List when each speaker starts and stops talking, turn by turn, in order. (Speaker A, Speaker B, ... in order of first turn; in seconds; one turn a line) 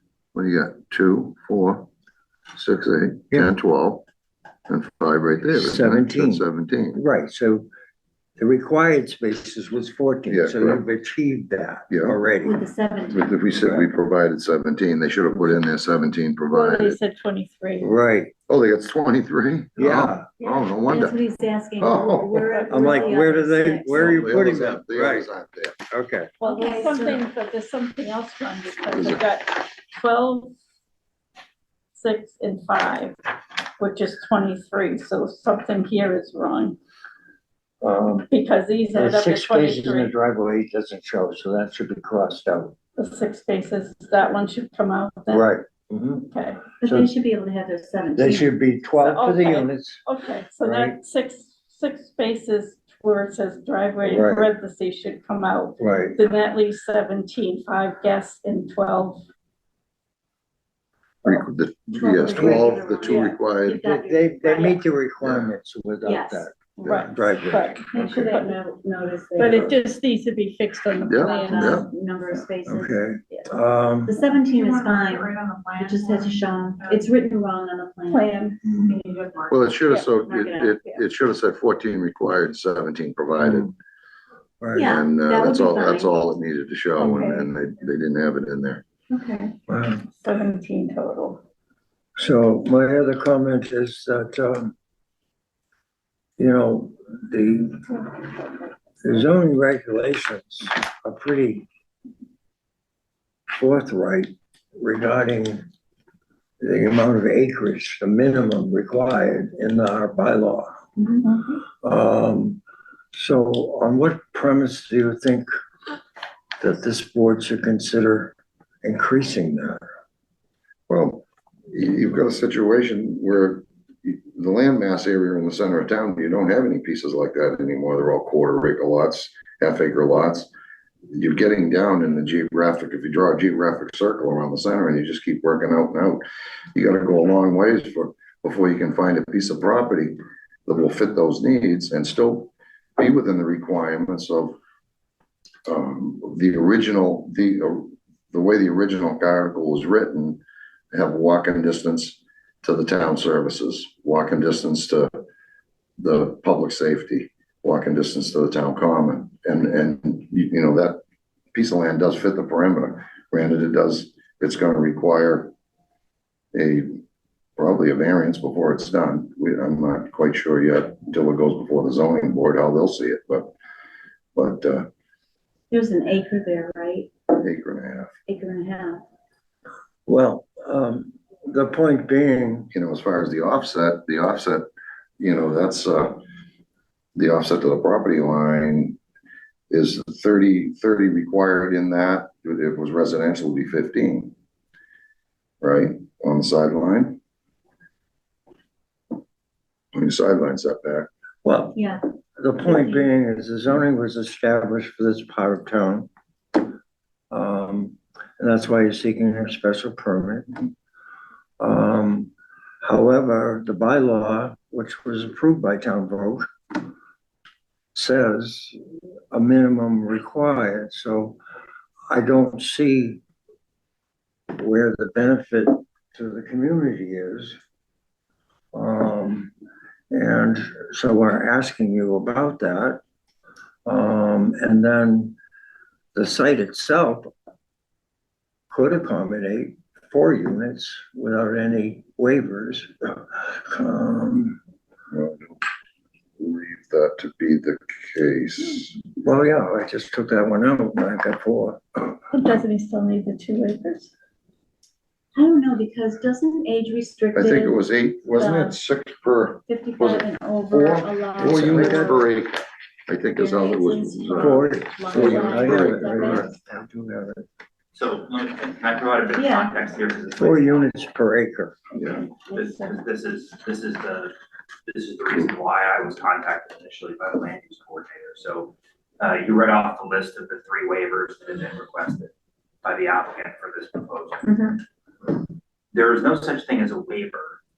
Speaker A: 0.3-1.9
Speaker A: 2.5-4.0
Speaker A: 4.7-7.0
Speaker B: 5.5-7.7
Speaker B: 8.4-12.7
Speaker A: 10.3-10.8
Speaker A: 11.9-12.2
Speaker C: 12.4-13.4
Speaker A: 13.1-17.0
Speaker B: 13.5-13.9
Speaker D: 16.5-17.9
Speaker B: 17.8-18.3
Speaker A: 18.5-21.2
Speaker B: 19.8-20.3
Speaker D: 20.4-20.7
Speaker C: 20.9-24.5
Speaker A: 21.8-22.6
Speaker D: 22.4-23.3
Speaker B: 22.7-25.3
Speaker A: 23.9-25.8
Speaker B: 25.9-26.3
Speaker D: 26.4-30.6
Speaker C: 26.4-27.2
Speaker A: 28.9-29.2
Speaker D: 31.9-33.1
Speaker D: 33.8-36.8
Speaker B: 37.8-38.3
Speaker D: 38.3-40.1
Speaker B: 38.9-42.7
Speaker D: 43.0-45.5
Speaker B: 45.3-46.3
Speaker D: 46.3-46.7
Speaker C: 46.8-48.5
Speaker B: 46.8-47.1
Speaker B: 48.1-50.0
Speaker D: 48.9-59.2
Speaker B: 50.6-51.0
Speaker B: 54.0-54.5
Speaker B: 55.8-56.2
Speaker A: 61.2-63.8
Speaker C: 61.9-64.8
Speaker B: 62.2-62.9
Speaker D: 63.0-63.4
Speaker B: 63.8-67.8
Speaker A: 65.2-65.5
Speaker C: 66.0-66.5
Speaker D: 66.8-68.5
Speaker C: 67.9-69.8
Speaker D: 69.3-72.5
Speaker A: 71.1-71.8
Speaker C: 71.1-73.0
Speaker B: 72.7-74.2
Speaker C: 74.0-78.4
Speaker D: 75.0-75.8
Speaker D: 78.1-78.6
Speaker B: 78.6-78.9
Speaker A: 79.5-83.7
Speaker C: 80.3-80.8
Speaker B: 83.4-83.7
Speaker B: 84.6-85.0
Speaker C: 84.7-86.1
Speaker A: 84.8-88.8
Speaker B: 87.0-87.4
Speaker C: 89.1-89.5
Speaker B: 89.7-90.0
Speaker D: 90.1-91.4
Speaker B: 92.2-94.7
Speaker B: 96.4-98.0
Speaker B: 99.0-101.7
Speaker B: 103.5-105.6
Speaker B: 106.6-110.7
Speaker C: 111.0-111.2
Speaker B: 111.8-112.6
Speaker B: 113.1-115.5
Speaker B: 116.6-119.8
Speaker A: 120.9-130.5
Speaker A: 131.1-136.2
Speaker A: 136.7-144.6
Speaker A: 145.7-155.1
Speaker A: 156.0-161.0
Speaker A: 161.5-165.5
Speaker A: 166.5-167.0
Speaker A: 167.6-173.5
Speaker A: 174.3-174.9
Speaker C: 175.7-177.1
Speaker A: 177.4-178.1
Speaker C: 178.2-179.0
Speaker B: 180.1-182.7
Speaker A: 182.7-184.6
Speaker A: 185.2-186.2
Speaker A: 187.2-189.0
Speaker A: 189.7-194.3
Speaker A: 195.6-197.2
Speaker A: 199.9-201.1
Speaker B: 201.4-201.8
Speaker C: 201.7-202.0
Speaker B: 202.4-206.1
Speaker C: 202.6-203.1
Speaker B: 207.3-210.7
Speaker B: 211.6-212.3
Speaker B: 212.8-216.5
Speaker B: 217.9-218.8
Speaker B: 219.3-221.4
Speaker B: 222.1-223.2
Speaker B: 224.5-227.6
Speaker B: 228.7-229.5
Speaker B: 230.1-233.0
Speaker B: 233.8-235.3
Speaker B: 236.1-237.3
Speaker B: 238.7-244.6
Speaker A: 245.1-245.6
Speaker A: 246.4-248.9
Speaker B: 249.2-251.8
Speaker D: 252.3-254.1
Speaker C: 255.3-258.8
Speaker A: 257.3-266.5
Speaker C: 259.6-262.3
Speaker B: 261.4-262.3
Speaker C: 263.3-266.5
Speaker B: 264.4-267.4
Speaker E: 267.9-270.9
Speaker C: 269.4-269.8
Speaker B: 270.4-271.8
Speaker A: 271.9-272.3
Speaker E: 272.1-274.3
Speaker C: 272.4-272.9
Speaker E: 274.9-282.3
Speaker E: 282.8-285.4
Speaker C: 284.5-284.7
Speaker E: 285.9-287.6